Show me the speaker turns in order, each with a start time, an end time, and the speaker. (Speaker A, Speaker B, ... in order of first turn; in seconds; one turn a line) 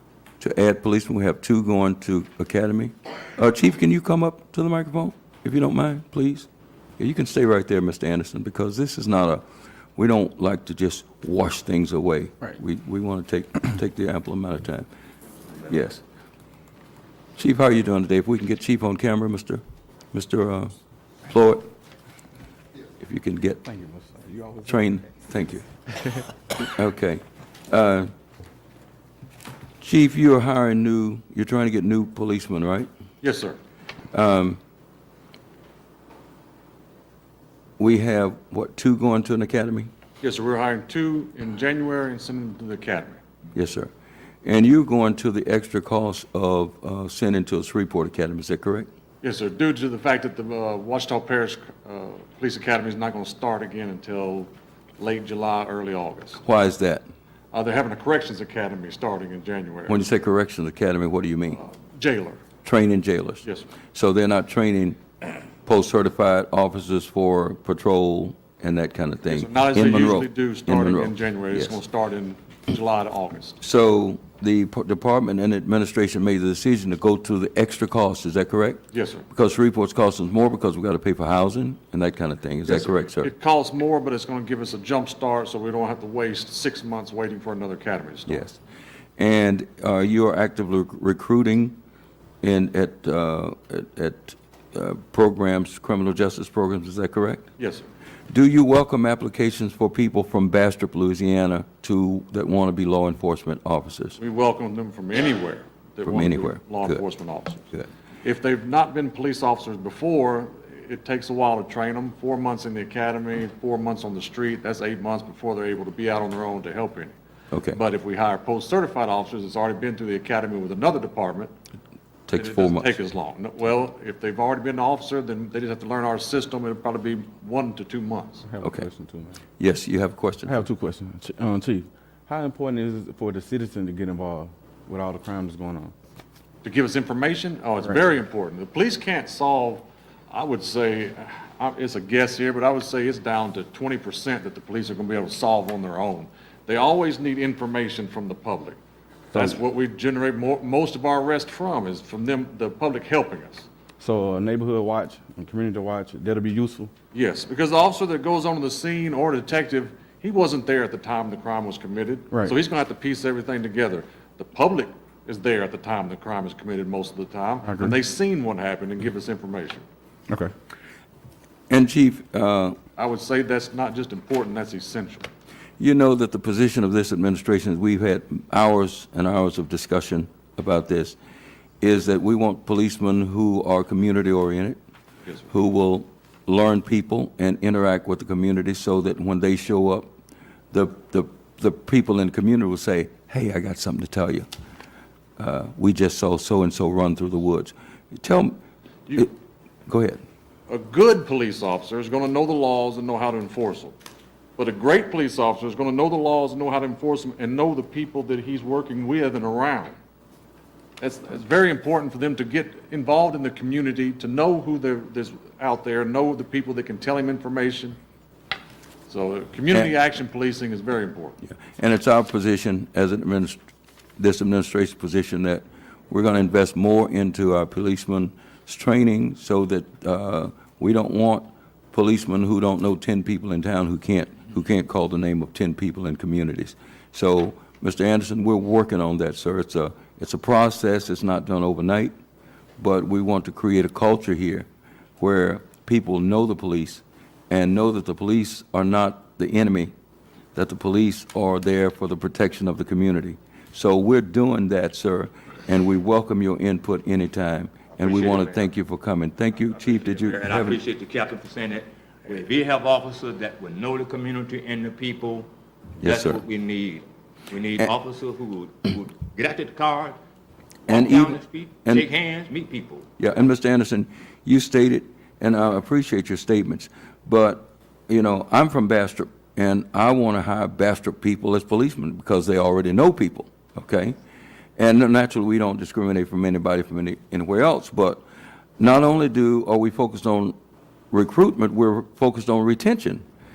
Speaker A: 0.4-6.5
Speaker A: 7.0-9.4
Speaker A: 10.0-14.9
Speaker A: 15.7-16.0
Speaker A: 17.4-19.6
Speaker A: 20.1-20.7
Speaker A: 21.3-21.7
Speaker A: 23.0-23.6
Speaker B: 23.6-24.8
Speaker A: 24.7-25.6
Speaker A: 26.6-28.1
Speaker A: 29.8-32.9
Speaker C: 33.2-33.6
Speaker A: 34.1-34.6
Speaker A: 37.8-39.9
Speaker C: 40.2-43.2
Speaker A: 43.5-43.9
Speaker A: 44.4-48.9
Speaker C: 49.2-56.4
Speaker A: 56.4-57.1
Speaker C: 57.5-60.0
Speaker A: 59.9-61.6
Speaker C: 61.6-62.4
Speaker A: 62.6-65.0
Speaker A: 65.7-71.8
Speaker C: 69.3-73.6
Speaker A: 73.6-83.3
Speaker C: 78.9-79.3
Speaker C: 82.7-88.5
Speaker A: 88.3-88.6
Speaker A: 89.2-91.8
Speaker A: 92.4-97.5
Speaker C: 97.6-97.8
Speaker A: 98.3-104.2
Speaker C: 104.2-107.7
Speaker A: 106.0-107.0
Speaker C: 108.2-117.1
Speaker A: 117.5-117.8
Speaker C: 117.7-121.5
Speaker A: 122.3-122.9
Speaker C: 122.3-128.5
Speaker B: 128.5-129.4
Speaker A: 129.6-130.7
Speaker B: 130.5-135.9
Speaker C: 136.6-148.8
Speaker C: 149.3-153.7
Speaker B: 154.0-156.9
Speaker C: 157.1-169.8
Speaker A: 171.7-172.8
Speaker C: 173.0-175.3
Speaker A: 175.8-181.2
Speaker A: 181.8-184.8
Speaker A: 185.5-190.1
Speaker A: 190.7-194.5
Speaker A: 195.4-198.6
Speaker A: 199.9-200.2
Speaker C: 200.7-204.0
Speaker C: 204.6-209.9
Speaker C: 211.0-218.0
Speaker C: 219.1-221.4
Speaker A: 221.5-223.6
Speaker A: 224.2-242.1
Speaker A: 242.8-244.7
Speaker A: 245.2-249.9
Speaker A: 250.6-260.8
Speaker D: 258.0-258.5
Speaker D: 260.0-265.5
Speaker D: 266.0-270.2
Speaker A: 266.0-266.4
Speaker D: 270.9-273.1
Speaker A: 270.9-272.1
Speaker A: 273.2-284.2
Speaker A: 284.8-288.2
Speaker A: 288.8-290.6
Speaker A: 291.1-293.2